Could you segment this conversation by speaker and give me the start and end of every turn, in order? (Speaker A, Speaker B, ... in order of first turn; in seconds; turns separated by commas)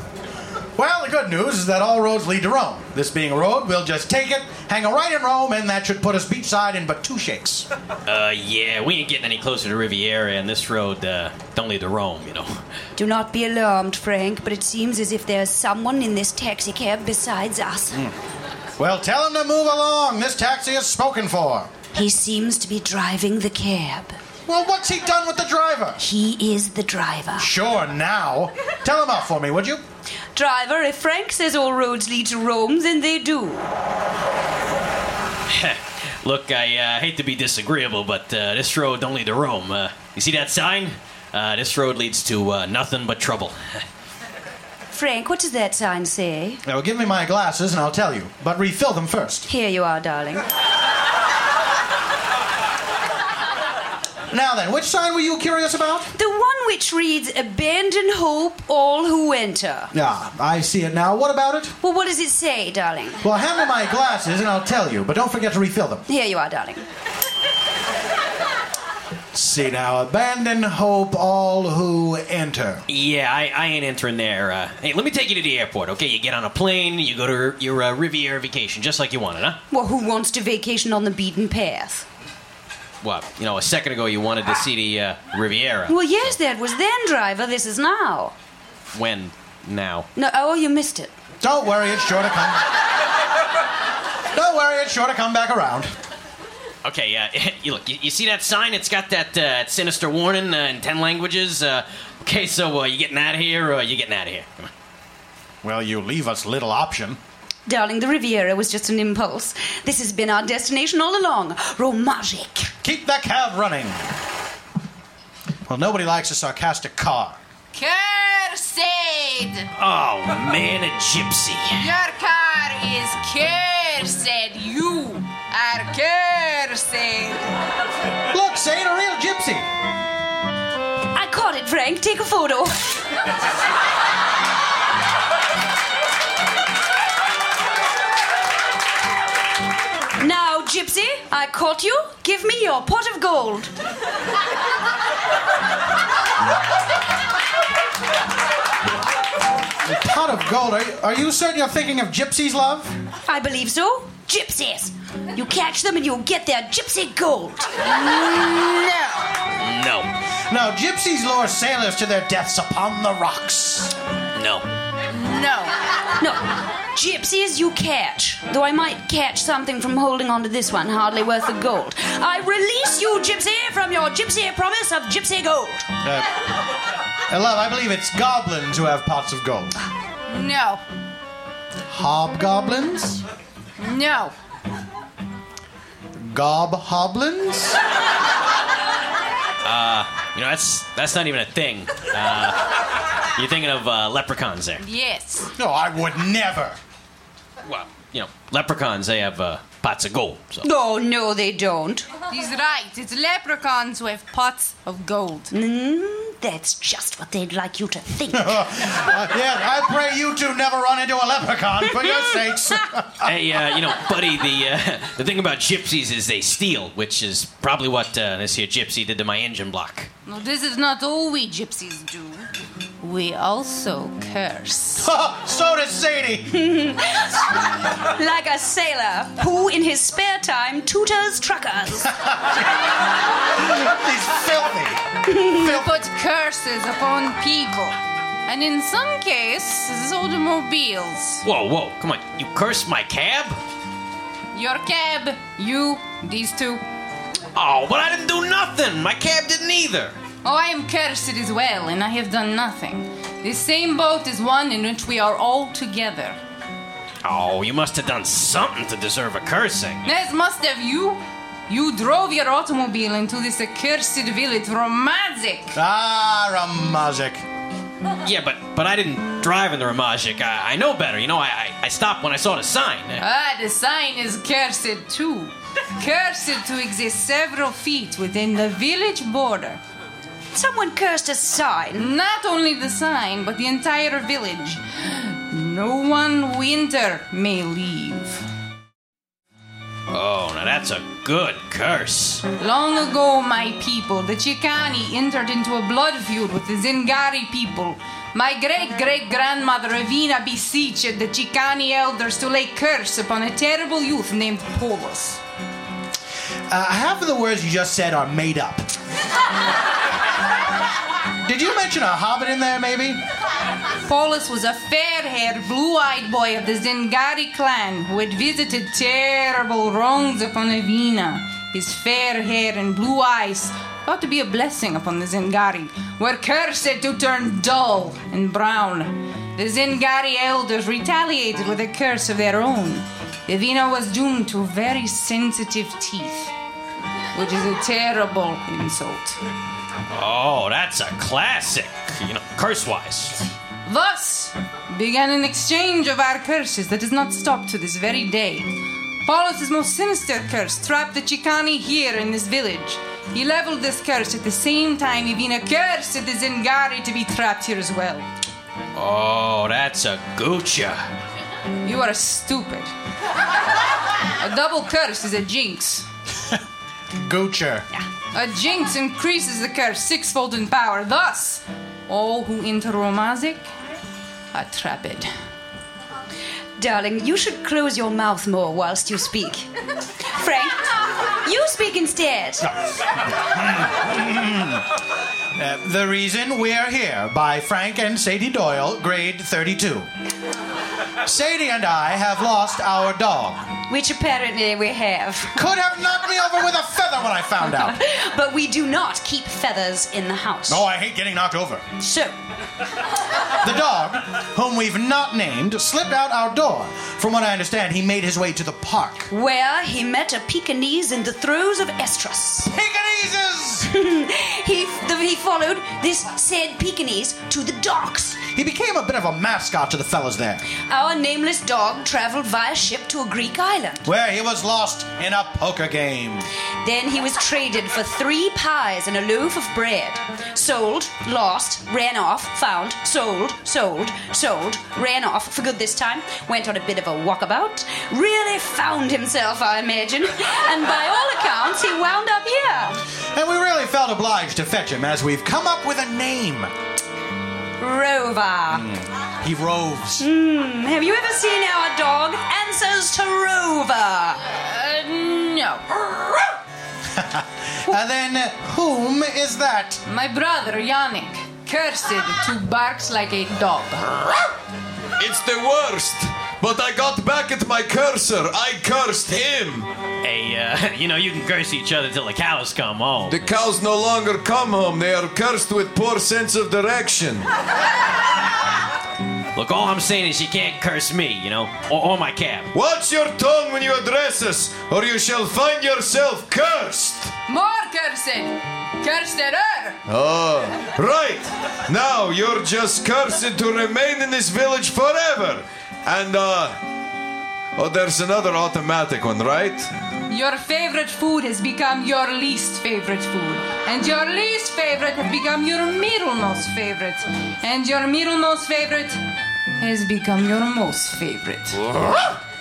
Speaker A: 0.8-7.7, Speaker B: 8.1-12.5, Speaker C: 13.0-18.1, Speaker A: 18.8-21.8, Speaker C: 21.9-24.2, Speaker A: 24.5-26.0, Speaker C: 26.0-27.5, Speaker A: 27.4-29.8, Speaker C: 30.4-33.7, Speaker B: 35.5-43.8, Speaker C: 44.9-46.6, Speaker A: 46.6-49.5, Speaker C: 49.5-50.5, Speaker A: 54.3-56.1, Speaker C: 56.1-59.9, Speaker A: 59.9-61.8, Speaker C: 61.8-63.2, Speaker A: 63.2-66.0, Speaker C: 66.1-66.8, Speaker A: 69.3-72.8, Speaker B: 72.9-79.6, Speaker C: 79.7-82.1, Speaker B: 83.0-86.3, Speaker C: 85.9-88.3, Speaker B: 88.9-90.1, Speaker C: 90.2-91.1, Speaker A: 91.4-92.6, Speaker A: 94.3-95.9, Speaker B: 96.8-104.7, Speaker A: 105.6-107.2, Speaker C: 107.7-112.7, Speaker A: 112.8-114.0, Speaker A: 115.7-117.4, Speaker D: 117.7-119.7, Speaker B: 119.8-121.8, Speaker D: 121.8-127.5, Speaker A: 128.3-129.7, Speaker C: 131.1-132.9, Speaker C: 140.2-143.7, Speaker A: 149.9-152.9, Speaker C: 153.2-157.8, Speaker D: 157.9-159.2, Speaker B: 159.6-160.1, Speaker A: 160.5-163.9, Speaker B: 164.4-164.7, Speaker D: 165.1-165.8, Speaker C: 166.2-175.9, Speaker A: 176.0-176.3, Speaker A: 177.3-179.7, Speaker D: 180.3-180.8, Speaker A: 181.9-183.2, Speaker D: 183.8-184.3, Speaker A: 186.2-187.8, Speaker B: 189.6-192.6, Speaker B: 193.3-194.8, Speaker D: 194.8-195.5, Speaker A: 195.6-196.8, Speaker B: 197.7-200.6, Speaker C: 200.6-202.1, Speaker D: 202.3-205.5, Speaker C: 205.5-209.1, Speaker A: 208.3-213.3, Speaker C: 212.0-212.3, Speaker B: 213.2-220.1, Speaker D: 220.2-222.5, Speaker D: 223.0-225.1, Speaker A: 225.0-226.5, Speaker C: 226.5-232.1, Speaker A: 233.6-235.9, Speaker C: 235.2-235.8, Speaker D: 235.7-241.4, Speaker B: 241.4-243.6, Speaker D: 244.5-246.8, Speaker B: 247.5-250.2, Speaker D: 250.4-256.4, Speaker B: 257.2-260.0, Speaker D: 260.0-265.8, Speaker A: 265.8-267.4, Speaker B: 268.2-273.2, Speaker D: 273.2-279.8, Speaker C: 280.5-282.1, Speaker D: 282.0-288.4, Speaker B: 290.1-292.4, Speaker D: 292.6-305.4, Speaker A: 306.7-308.9, Speaker A: 311.4-313.2, Speaker D: 314.1-336.5, Speaker D: 337.3-339.4, Speaker B: 340.1-343.4, Speaker D: 343.9-358.3, Speaker B: 359.0-361.0, Speaker D: 361.8-362.9, Speaker D: 364.4-366.1, Speaker A: 367.2-367.9, Speaker D: 368.3-373.7, Speaker D: 374.5-375.3, Speaker C: 376.8-379.7, Speaker C: 380.3-380.8, Speaker C: 381.4-382.7, Speaker A: 383.4-384.8, Speaker A: 385.6-390.1, Speaker A: 391.2-393.7, Speaker C: 393.8-395.6, Speaker A: 395.6-397.9, Speaker C: 397.6-400.8, Speaker A: 400.7-401.9, Speaker C: 402.0-402.3, Speaker A: 403.6-409.3, Speaker C: 409.3-412.7, Speaker A: 412.7-413.9, Speaker C: 413.9-418.5, Speaker A: 418.4-420.6, Speaker C: 420.8-424.1, Speaker A: 424.1-426.5, Speaker C: 426.8-443.0, Speaker A: 443.4-446.7, Speaker C: 447.8-448.9, Speaker A: 449.4-450.2, Speaker C: 450.2-454.4, Speaker D: 454.5-456.4, Speaker A: 457.1-460.0, Speaker D: 460.1-464.4, Speaker E: 465.2-469.9, Speaker B: 470.2-473.4, Speaker E: 473.3-477.5, Speaker B: 479.6-482.7, Speaker E: 482.7-487.3, Speaker D: 487.5-490.0, Speaker E: 490.1-496.8, Speaker E: 497.8-499.9, Speaker D: 500.3-509.2, Speaker D: 509.8-511.8